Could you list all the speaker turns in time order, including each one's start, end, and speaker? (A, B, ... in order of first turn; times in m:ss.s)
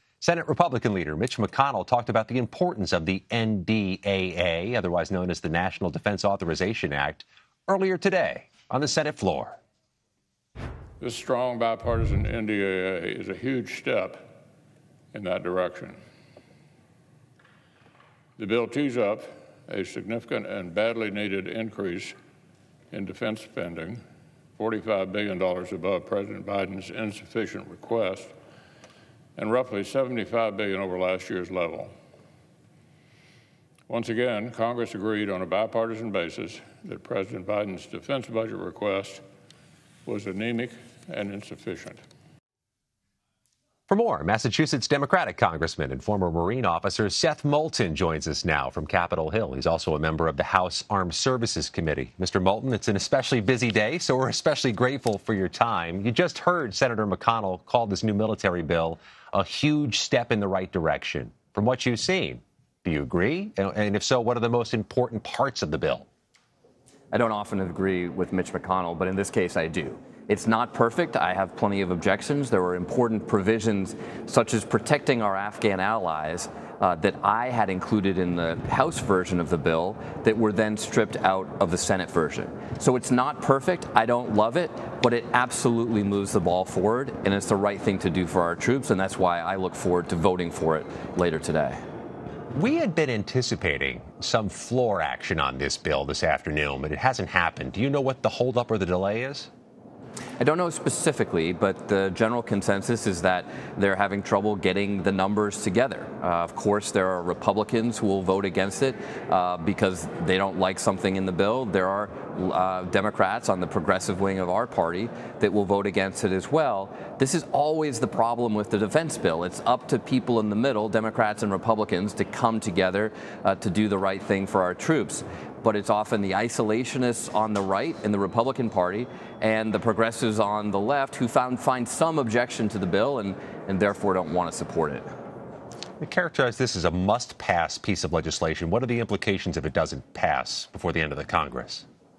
0:00.2-0:09.6 A
0:11.0-0:14.2 B
0:15.1-0:16.0 B
0:18.4-0:22.1 B
0:22.9-0:24.0 B
0:24.6-0:28.3 B
0:29.4-0:31.9 B
0:33.9-0:39.2 B
0:40.0-0:42.0 B
0:43.9-1:06.1 A
1:07.1-1:31.8 C
1:32.5-1:39.5 A
1:40.4-2:15.0 C
2:16.0-2:21.8 A